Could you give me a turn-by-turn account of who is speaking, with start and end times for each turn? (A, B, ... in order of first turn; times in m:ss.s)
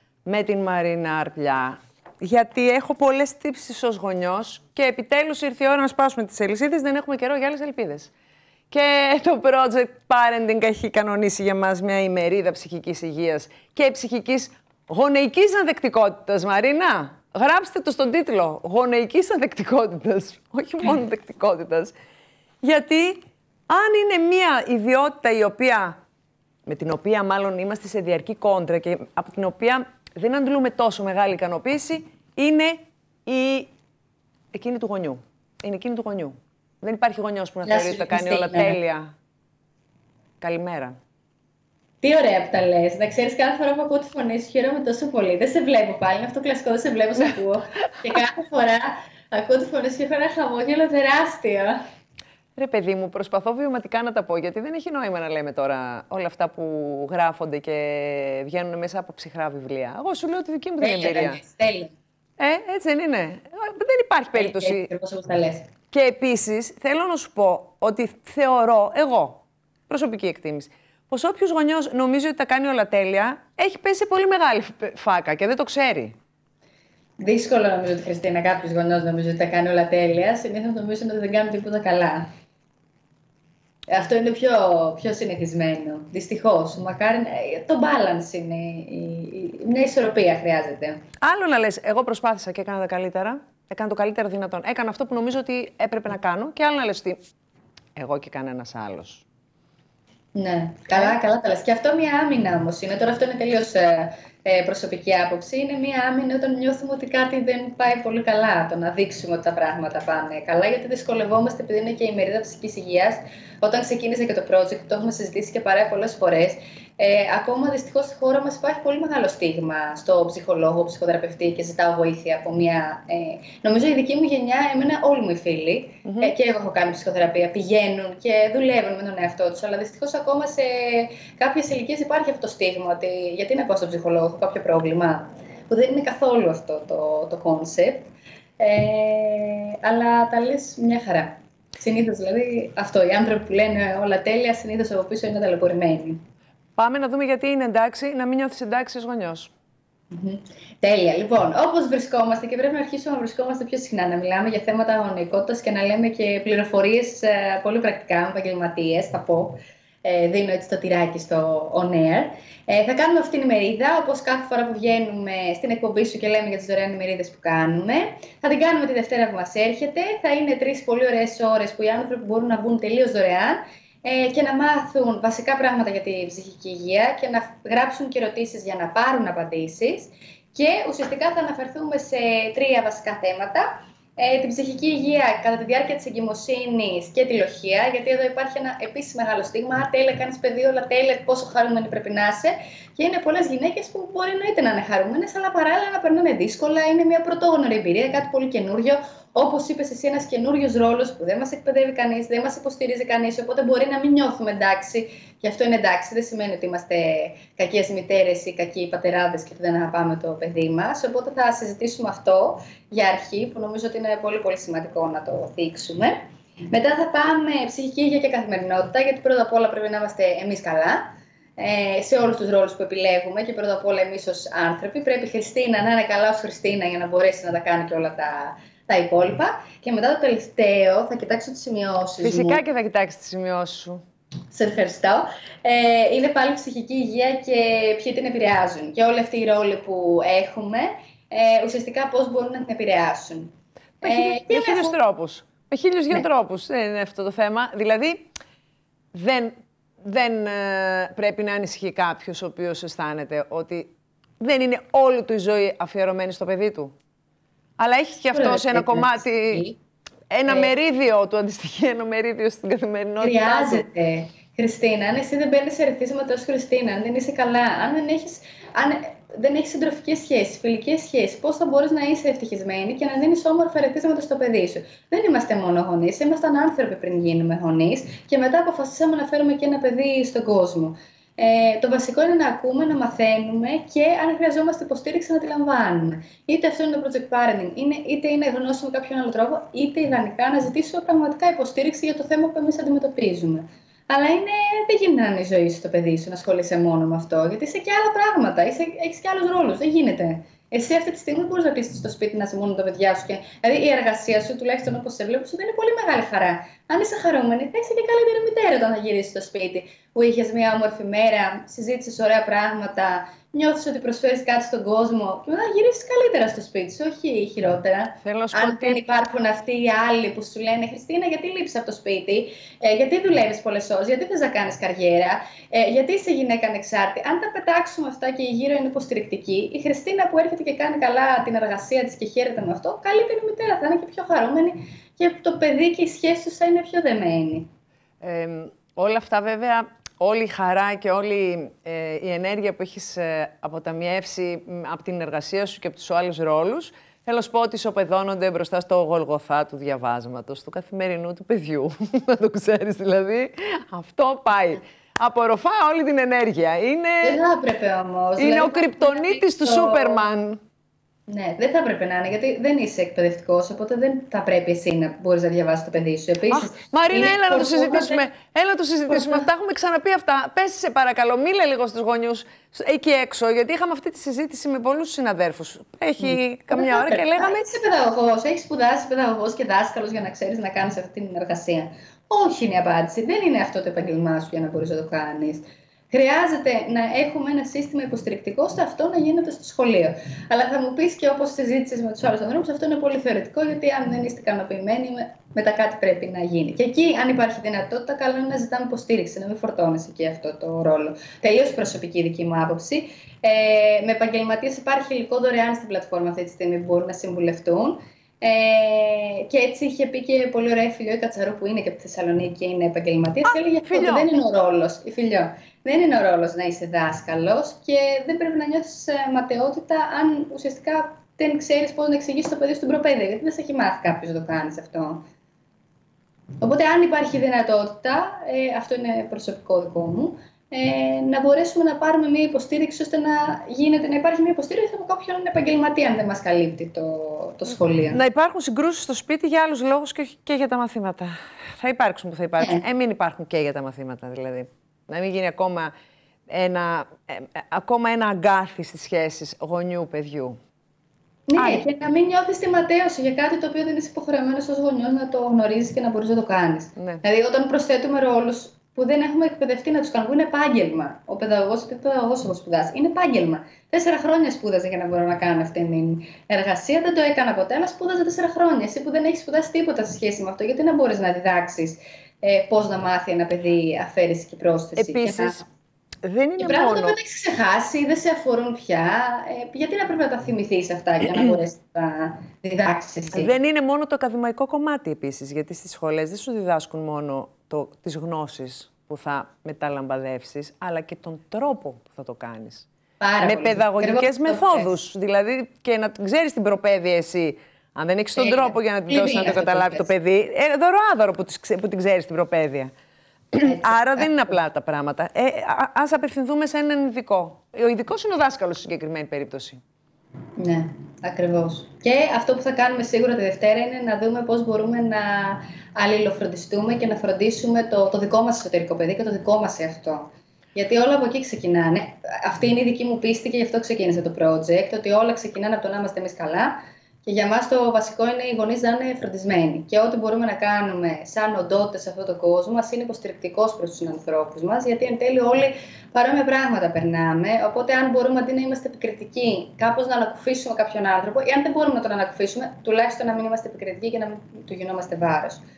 0:00.3-0:08.1 A
0:08.7-0:21.9 A
0:22.6-0:26.0 A
0:26.7-0:33.7 A
0:34.5-0:39.1 A
0:37.6-0:38.8 B
0:40.4-0:41.0 A
0:42.0-0:51.8 B
0:52.6-1:01.4 A
1:00.8-1:01.9 B
1:02.4-1:04.9 A
1:04.4-1:05.7 B
1:05.9-1:16.1 A
1:17.2-1:22.3 B
1:23.9-1:31.0 B
1:31.2-1:37.2 A
1:38.0-1:39.2 A
1:40.4-2:26.2 B
2:06.0-2:06.3 A
2:26.8-2:29.5 A
2:30.1-3:36.2 B
3:36.7-3:52.6 B
3:52.2-3:54.0 A
3:54.5-4:05.0 B
4:04.0-4:08.3 A
4:09.1-4:16.9 A
4:17.8-4:19.7 A
4:18.3-4:19.8 B
4:20.3-4:23.8 A
4:20.5-4:20.7 B
4:23.2-5:37.7 B
5:18.2-5:19.0 A
5:38.2-5:57.4 A
5:57.2-6:00.2 B
5:58.4-6:00.6 A
6:01.3-6:08.3 B
6:06.5-6:17.7 A
6:09.1-6:09.4 B
6:16.2-7:05.2 B
6:53.4-6:54.3 A
7:06.6-7:18.2 B
7:18.1-7:25.9 A
7:22.6-7:22.8 B
7:26.5-7:30.6 A
7:31.5-7:55.6 B
7:31.6-7:31.8 A
7:37.0-7:37.2 A
7:55.0-7:55.7 A
7:56.2-7:57.2 A
7:56.6-8:03.5 B
8:03.3-8:12.9 A
8:13.2-8:14.9 B
8:13.4-8:22.9 A
8:18.4-8:20.1 B
8:23.5-8:29.8 A
8:23.6-8:24.4 B
8:30.6-9:05.6 B